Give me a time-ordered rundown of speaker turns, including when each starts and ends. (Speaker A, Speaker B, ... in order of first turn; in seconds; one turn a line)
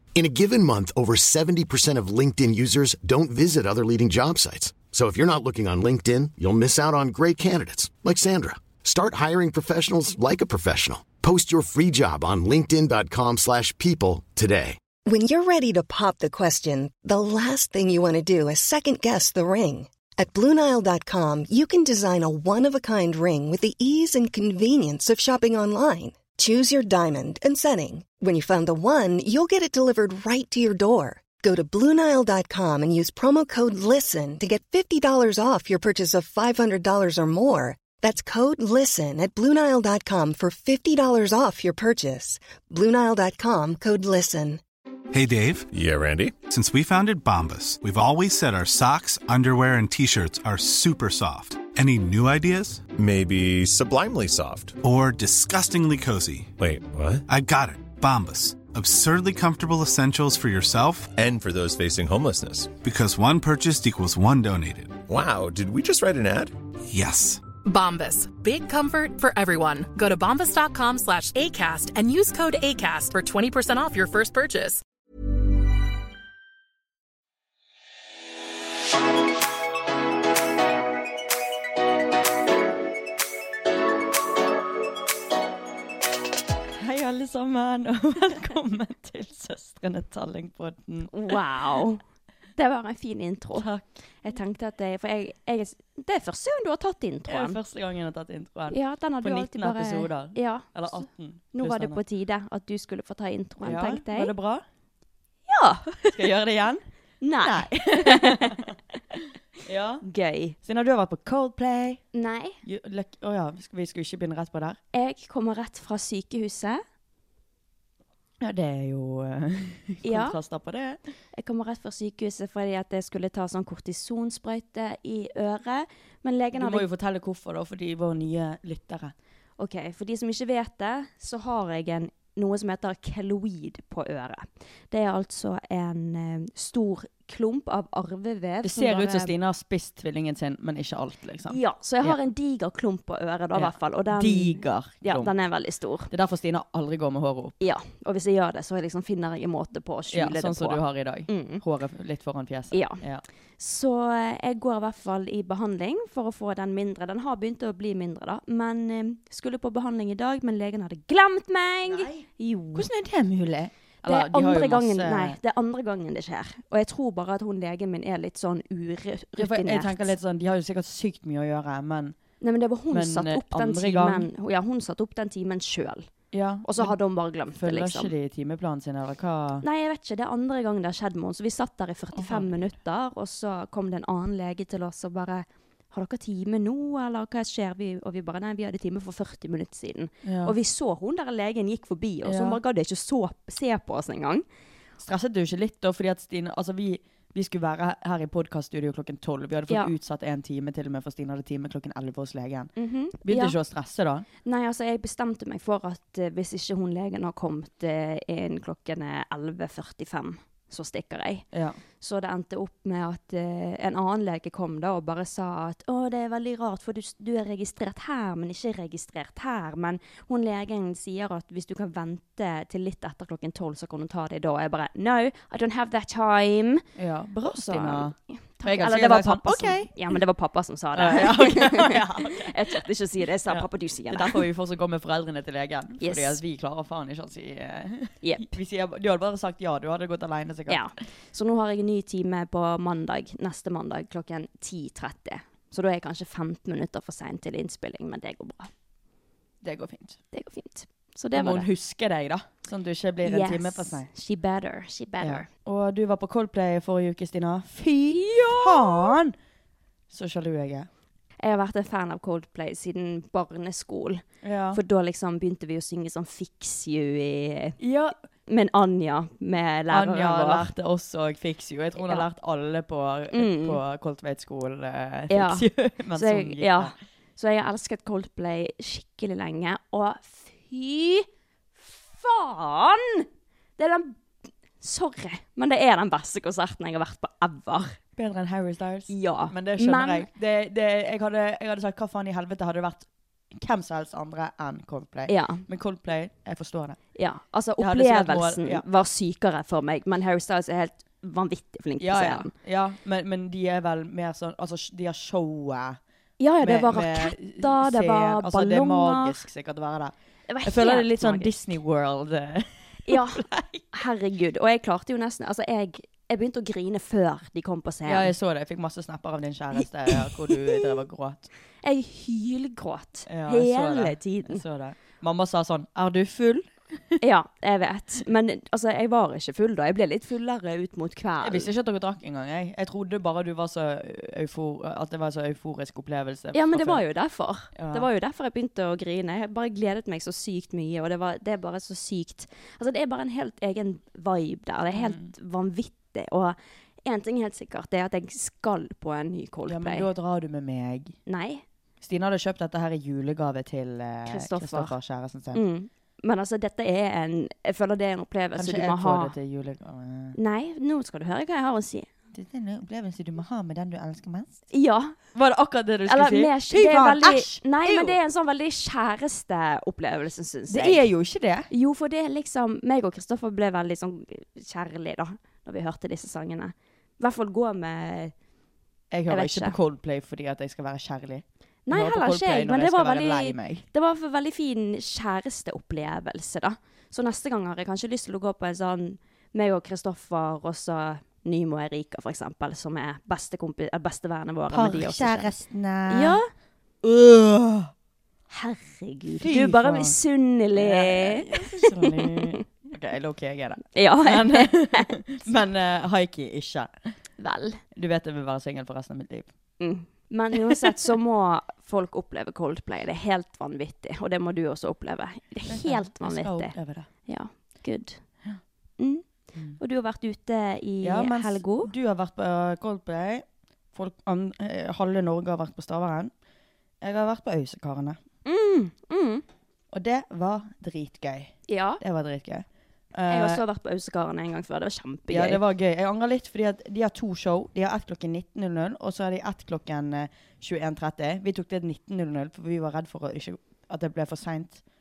Speaker A: 0.1-14.8
Speaker B: 15.0-44.6
Speaker C: 45.1-45.7
Speaker D: 45.7-46.3
Speaker C: 46.5-52.8
Speaker D: 53.0-54.8
Speaker C: 54.8-56.5
Speaker D: 56.6-57.2
Speaker C: 57.3-61.1
Speaker D: 61.1-62.8
Speaker C: 62.8-65.0
Speaker D: 65.1-66.5
Speaker C: 66.9-67.4
Speaker E: 67.6-74.8
Speaker F: 86.7-91.1
Speaker G: 91.1-92.0
Speaker G: 92.6-93.7
Speaker F: 93.5-93.9
Speaker G: 94.2-97.6
Speaker F: 97.3-102.0
Speaker G: 98.7-100.7
Speaker G: 101.5-104.3
Speaker F: 103.6-104.6
Speaker G: 105.5-106.2
Speaker F: 106.1-106.8
Speaker G: 107.2-108.7
Speaker F: 107.4-110.0
Speaker G: 110.0-110.6
Speaker F: 110.6-112.0
Speaker G: 112.1-112.6
Speaker F: 112.6-114.8
Speaker G: 114.9-116.8
Speaker F: 118.4-121.0
Speaker G: 120.0-120.4
Speaker G: 121.3-126.8
Speaker F: 126.5-129.1
Speaker G: 129.6-139.3
Speaker F: 138.6-142.2
Speaker G: 141.5-146.1
Speaker F: 143.5-145.3
Speaker F: 146.1-147.5
Speaker G: 147.6-151.6
Speaker F: 150.1-153.2
Speaker G: 152.7-153.0
Speaker G: 153.6-162.9
Speaker F: 161.8-165.4
Speaker G: 164.0-170.1
Speaker F: 169.4-172.2
Speaker G: 172.4-176.1
Speaker F: 172.9-174.3
Speaker F: 176.3-177.0
Speaker G: 176.6-178.1
Speaker F: 177.5-179.6
Speaker G: 179.6-194.4
Speaker F: 182.1-182.5
Speaker F: 190.2-190.5
Speaker F: 192.2-192.6
Speaker F: 195.0-204.2
Speaker G: 202.8-203.6
Speaker G: 204.4-211.4
Speaker F: 211.5-211.8
Speaker G: 212.0-226.8
Speaker F: 226.9-229.9
Speaker G: 227.4-234.4
Speaker F: 230.9-232.8
Speaker F: 233.4-240.8
Speaker G: 236.0-236.4
Speaker G: 238.2-238.6
Speaker G: 240.7-248.7
Speaker F: 249.6-250.2
Speaker G: 250.3-251.7
Speaker F: 251.3-254.1
Speaker G: 253.2-255.5
Speaker F: 255.2-259.3
Speaker G: 258.1-259.1
Speaker F: 260.1-260.9
Speaker G: 261.4-267.8
Speaker F: 264.4-264.8
Speaker F: 267.8-268.1
Speaker G: 268.4-270.7
Speaker F: 269.9-276.9
Speaker G: 272.0-272.3
Speaker G: 273.3-273.8
Speaker G: 275.3-281.3
Speaker G: 281.8-283.2
Speaker G: 283.8-284.2
Speaker G: 284.8-288.0
Speaker F: 288.2-297.0
Speaker G: 289.1-290.3
Speaker G: 295.3-295.6
Speaker G: 297.1-302.5
Speaker F: 297.8-298.8
Speaker F: 302.0-306.0
Speaker G: 306.4-309.4
Speaker F: 306.6-313.9
Speaker G: 310.5-311.6
Speaker G: 313.1-318.3
Speaker F: 318.1-321.5
Speaker G: 320.1-320.8
Speaker G: 321.8-324.6
Speaker F: 323.3-327.2
Speaker G: 327.2-331.7
Speaker F: 331.4-337.0
Speaker G: 336.5-350.1
Speaker F: 337.7-338.1
Speaker F: 344.9-345.3
Speaker F: 349.6-351.2
Speaker G: 351.3-351.6
Speaker F: 352.0-355.6
Speaker G: 354.3-354.9
Speaker G: 355.5-359.3
Speaker F: 358.5-360.4
Speaker G: 360.4-362.1
Speaker F: 362.3-364.6
Speaker G: 364.7-365.2
Speaker F: 365.3-368.2
Speaker G: 366.1-371.1
Speaker F: 370.7-371.7
Speaker G: 371.7-378.3
Speaker F: 379.1-383.8
Speaker G: 379.3-379.8
Speaker G: 381.9-395.5
Speaker F: 394.7-396.4
Speaker G: 396.1-396.5
Speaker F: 397.0-397.9
Speaker G: 398.5-402.6
Speaker F: 399.4-400.1
Speaker F: 400.7-406.9
Speaker G: 403.9-405.1
Speaker G: 407.4-407.8
Speaker F: 407.9-409.5
Speaker G: 409.8-416.7
Speaker F: 415.7-417.1
Speaker G: 417.2-418.2
Speaker G: 419.0-419.2
Speaker G: 419.8-421.9
Speaker F: 421.0-426.3
Speaker F: 427.0-428.2
Speaker G: 428.4-429.4
Speaker F: 429.9-433.6
Speaker G: 431.7-432.0
Speaker G: 433.3-435.6
Speaker F: 435.3-444.8